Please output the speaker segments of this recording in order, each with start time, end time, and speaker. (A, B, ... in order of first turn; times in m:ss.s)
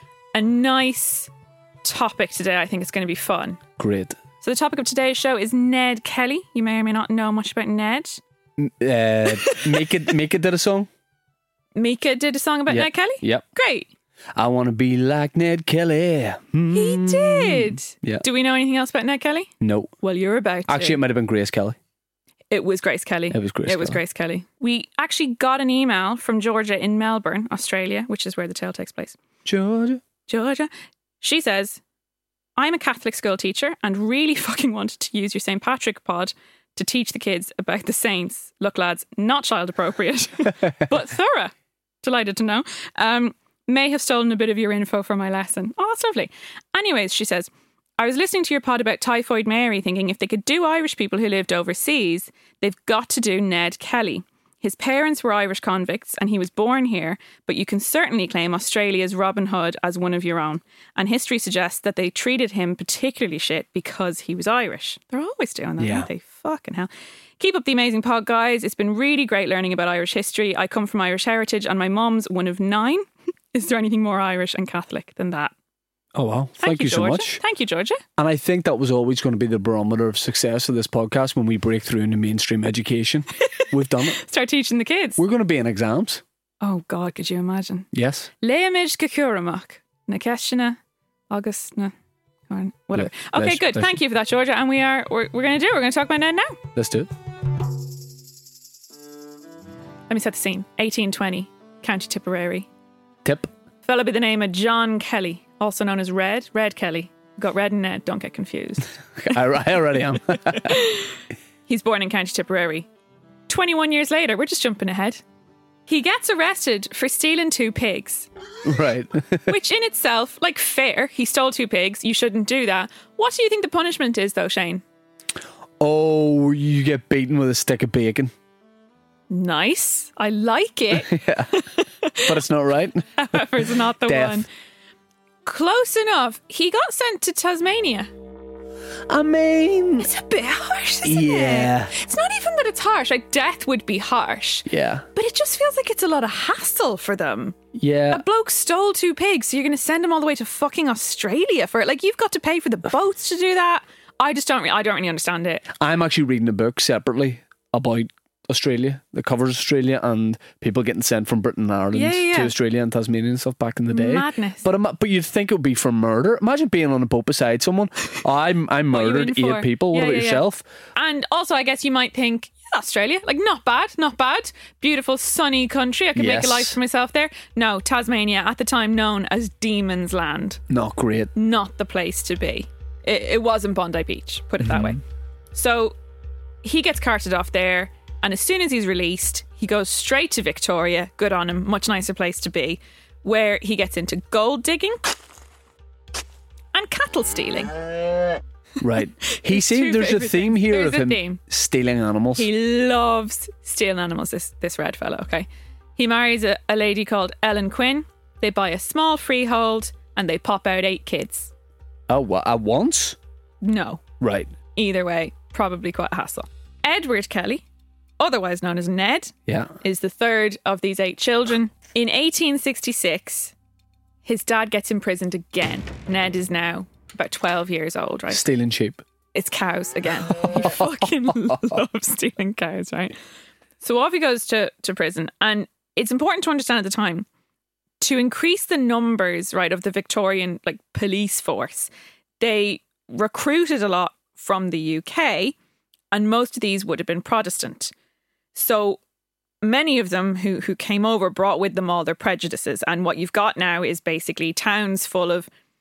0:00.3-0:01.3 A
0:01.8-0:03.6 A
0:03.8-0:04.2 B
0:04.4-0:08.2 A
0:08.6-0:10.9 B
0:09.3-0:09.9 A
0:11.8-0:13.9 A
0:12.7-0:13.4 B
0:14.4-0:18.2 B
0:16.7-0:21.0 A
0:19.6-0:19.9 B
0:20.7-0:21.8 B
0:22.5-0:29.2 A
0:23.3-0:24.0 B
0:29.4-0:30.0 B
0:30.3-0:30.7 A
0:31.2-0:31.8 A
0:32.6-1:15.5 A
1:05.8-1:06.1 B
1:16.2-1:17.4 B
1:16.6-1:18.0 A
1:18.2-1:24.2 B
1:23.6-1:25.2 A
1:25.2-1:26.2 B
1:26.6-1:27.9 A
1:27.9-1:28.3 B
1:28.4-1:30.8 A
1:31.3-1:31.9 A
1:32.5-1:36.6 A
1:32.9-1:34.0 B
1:36.8-1:37.1 B
1:40.1-1:42.7 A
1:43.2-1:43.5 B
1:43.8-1:49.4 A
1:49.2-1:50.8 B
1:50.5-1:52.9 A
1:53.5-1:55.2 A
1:55.9-1:58.3 A
1:58.6-1:59.5 B
1:59.5-2:04.8 A
2:05.8-2:08.3 B
2:09.3-2:12.3 A
2:10.9-2:11.5 B
2:12.2-2:14.4 B
2:13.2-2:14.4 A
2:15.4-2:18.1 A
2:19.1-2:20.1 B
2:20.0-2:27.6 A
2:21.0-2:21.9 B
2:24.7-2:25.0 B
2:27.7-2:28.2 B
2:28.1-2:35.6 A
2:35.8-2:50.6 B
2:41.9-2:42.5 A
2:43.9-2:44.7 A
2:48.9-3:00.6 A
2:56.2-2:56.8 B
3:00.7-3:01.3 B
3:01.4-3:05.0 A
3:04.6-3:05.0 B
3:05.5-3:06.0 A
3:06.6-3:15.0 A
3:16.7-3:17.8 A
3:18.8-3:22.5 B
3:19.3-3:21.4 A
3:22.4-3:31.5 A
3:32.1-3:33.2 B
3:33.6-3:34.0 A
3:34.2-3:34.5 B
3:34.7-3:37.6 A
3:38.2-3:43.5 A
3:39.5-3:39.7 B
3:44.2-3:48.5 A
3:48.3-3:49.0 B
3:49.3-3:53.2 A
3:50.5-3:51.6 B
3:53.8-3:57.3 A
3:58.0-4:05.6 A
4:06.1-4:07.9 A
4:08.5-4:09.0 A
4:09.6-4:15.5 A